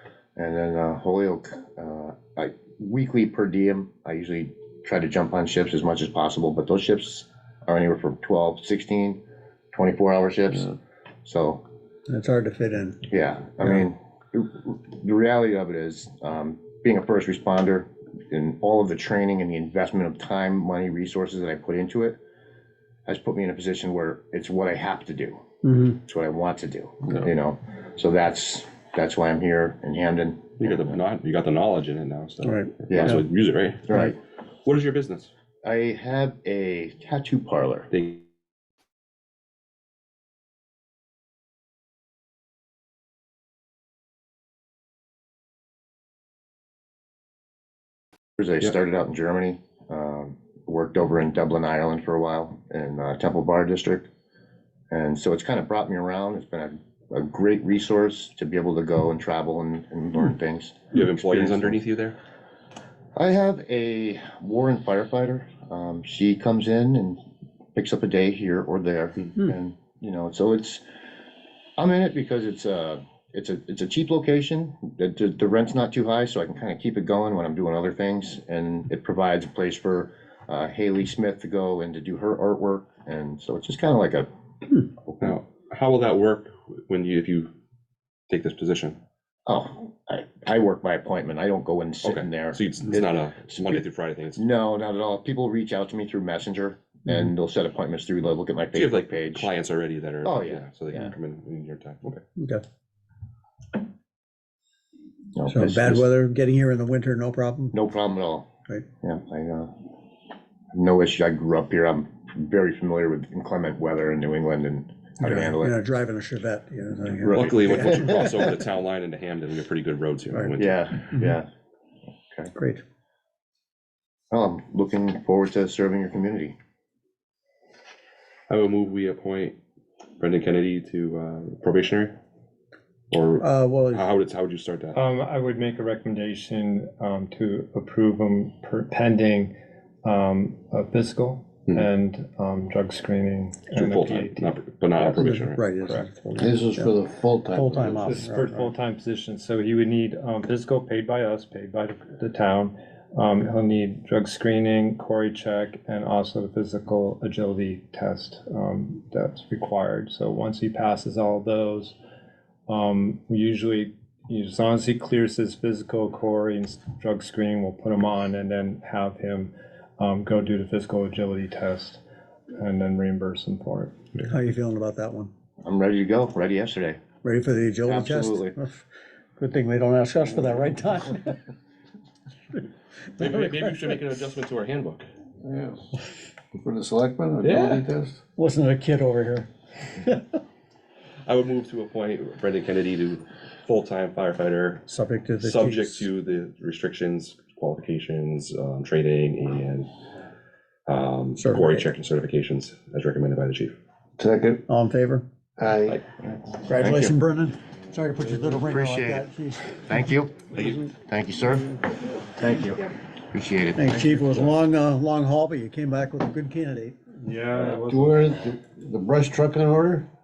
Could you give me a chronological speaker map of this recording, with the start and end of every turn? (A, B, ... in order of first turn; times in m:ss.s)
0:00.4-0:09.2 A
0:09.7-0:10.7 A
0:11.2-0:11.6 A
0:12.1-0:13.0 B
0:13.1-0:22.2 A
0:23.1-0:31.0 A
0:25.6-0:25.9 B
0:30.6-0:34.1 C
0:32.4-0:32.8 B
0:32.9-0:33.2 A
0:33.9-0:34.2 A
0:34.6-0:35.3 C
0:35.6-0:37.9 A
0:37.9-0:38.2 C
0:48.4-0:54.1 A
0:54.9-1:01.8 A
1:00.9-1:02.2 C
1:03.2-1:07.2 A
1:07.8-1:10.8 A
1:11.8-1:24.3 A
1:25.1-1:25.4 A
1:25.2-1:27.5 C
1:28.3-1:29.0 C
1:29.5-1:33.8 A
1:32.0-1:34.4 C
1:34.4-1:39.5 A
1:38.7-1:42.2 C
1:40.2-1:40.6 A
1:42.4-1:42.6 B
1:45.4-1:46.1 A
1:45.5-1:47.7 B
1:47.7-1:48.5 A
1:49.0-1:49.7 A
1:50.7-1:55.8 A
1:55.2-1:58.2 B
1:57.3-2:00.8 C
1:57.3-1:58.3 A
2:00.6-2:01.5 A
2:02.5-2:02.8 B
2:04.3-2:06.5 A
2:08.5-2:09.6 C
2:10.2-2:12.2 C
2:13.1-2:15.0 C
2:13.4-2:14.0 B
2:14.9-2:19.5 D
2:20.0-2:25.2 D
2:23.7-2:25.8 C
2:25.2-2:26.1 B
2:25.8-2:26.6 D
2:26.4-2:28.3 E
2:27.5-2:28.6 B
2:28.1-2:42.0 D
2:42.7-2:52.0 D
2:52.6-2:54.3 D
2:54.3-2:55.3 B
2:55.6-2:57.0 A
2:57.2-2:58.8 B
2:57.9-2:58.6 A
2:59.4-3:01.4 B
3:03.2-3:05.0 C
3:05.4-3:05.9 E
3:06.5-3:08.2 E
3:07.4-3:07.8 C
3:08.4-3:10.2 B
3:11.3-3:14.9 C
3:14.9-3:16.1 B
3:15.4-3:19.9 C
3:20.9-3:23.7 C
3:21.4-3:21.8 B
3:24.2-3:24.6 E
3:24.7-3:25.2 B
3:25.6-3:26.0 E
3:25.9-3:26.6 C
3:26.7-3:29.8 B
3:26.8-3:27.2 A
3:28.7-3:31.7 A
3:32.4-3:32.7 B
3:33.3-3:34.2 A
3:33.8-3:37.0 B
3:37.2-3:38.3 D
3:37.5-3:40.1 E